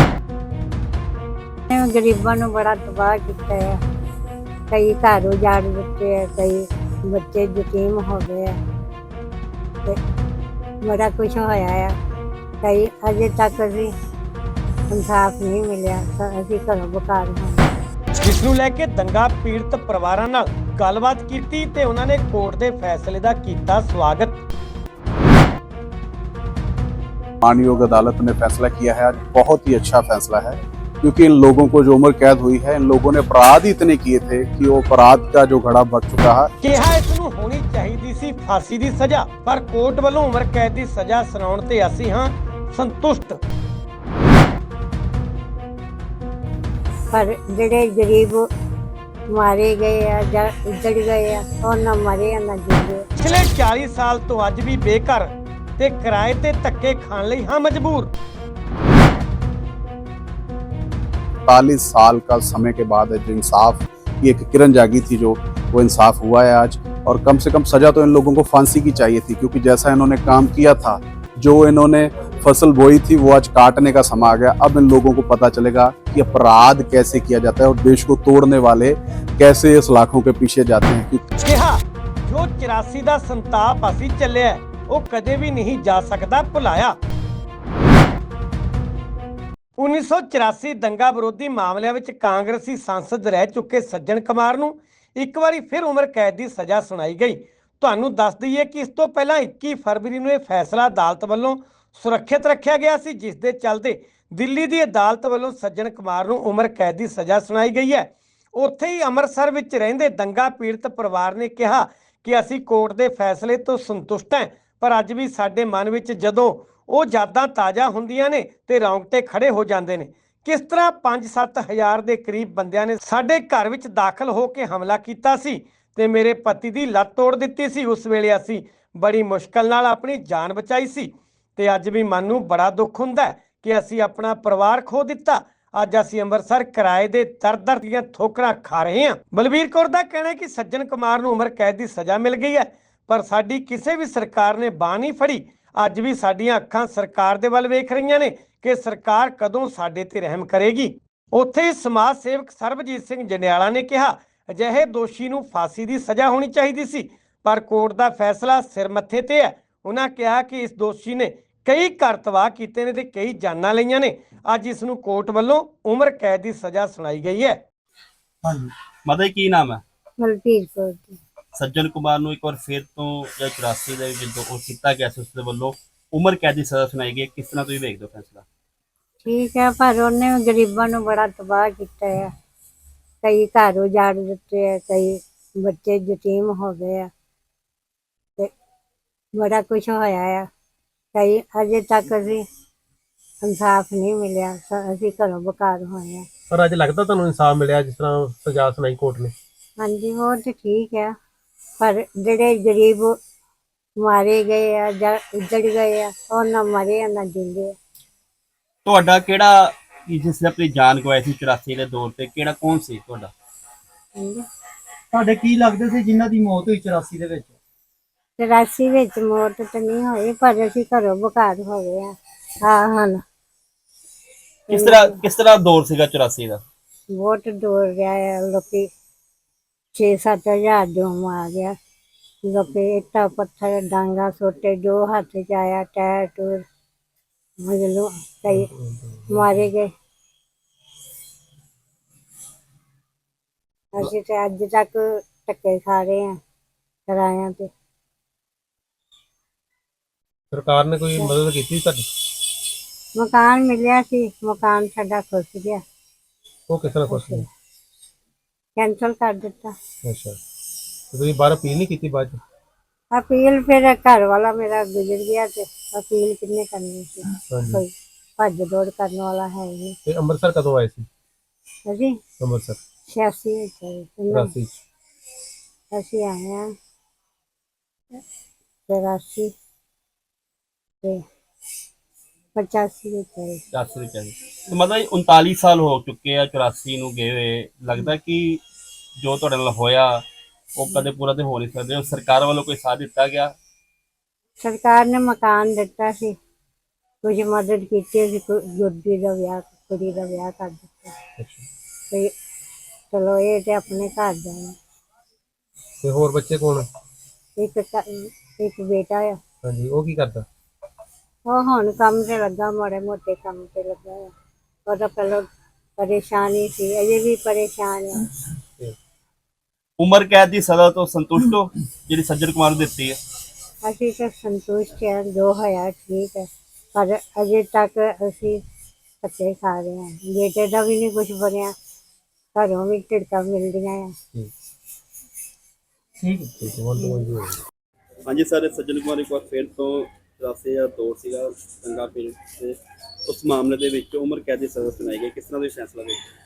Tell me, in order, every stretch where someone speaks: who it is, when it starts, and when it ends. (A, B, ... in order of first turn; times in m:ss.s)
0:01.7-0:03.8 A
0:04.7-0:08.6 A
0:10.8-0:11.9 A
0:12.6-0:13.9 A
0:14.9-0:17.7 A
0:18.2-0:24.4 B
0:27.4-0:36.5 C
0:36.6-0:43.4 B
0:47.1-0:48.5 A
0:49.3-0:53.0 A
0:53.2-0:58.1 B
1:01.5-1:21.2 C
1:21.4-1:27.0 B
1:29.8-2:47.6 B
2:48.4-2:48.7 D
2:49.0-2:49.8 E
2:50.2-2:51.2 A
2:51.5-2:58.4 E
2:59.2-3:02.3 A
3:03.2-3:07.1 A
3:09.3-3:10.5 A
3:11.1-3:12.4 A
3:13.4-3:16.3 A
3:16.5-3:19.3 F
3:19.8-3:21.1 A
3:21.8-3:23.2 A
3:24.0-3:27.7 A
3:28.8-3:33.3 E
3:34.2-3:34.4 A
3:35.1-3:37.5 D
3:38.4-3:43.2 A
3:44.7-3:46.6 E
3:44.7-3:45.2 A
3:47.1-3:48.9 A
3:49.9-3:51.8 A
3:52.4-3:56.6 A
3:57.6-3:58.7 A
3:58.5-3:59.7 F
3:59.3-3:59.9 A
4:03.9-4:06.4 A
4:07.1-4:07.7 A
4:10.5-4:12.1 F
4:13.1-4:15.8 A
4:16.7-4:17.5 F
4:17.1-4:17.4 A
4:18.8-4:19.8 A
4:20.0-4:20.4 F
4:21.1-4:22.4 F
4:23.1-4:30.0 A
4:27.5-4:27.8 F
4:30.0-4:31.1 F
4:31.9-4:32.2 A
4:32.4-4:32.8 F
4:33.0-4:34.5 A
4:34.3-4:34.8 F
4:35.9-4:36.7 A
4:38.9-4:39.5 A
4:42.5-4:43.6 A
4:43.7-4:48.6 E
4:49.2-4:53.5 E
4:54.6-4:56.3 A
4:57.2-5:01.2 A
5:01.4-5:01.6 F
5:03.1-5:04.8 A
5:06.0-5:06.9 F
5:07.6-5:09.4 A
5:09.6-5:10.4 F
5:11.5-5:14.3 A
5:14.8-5:18.3 A
5:20.0-5:23.2 E
5:23.8-5:28.6 A
5:29.2-5:31.7 A
5:32.5-5:34.1 A
5:36.2-5:37.6 F
5:38.3-5:46.3 E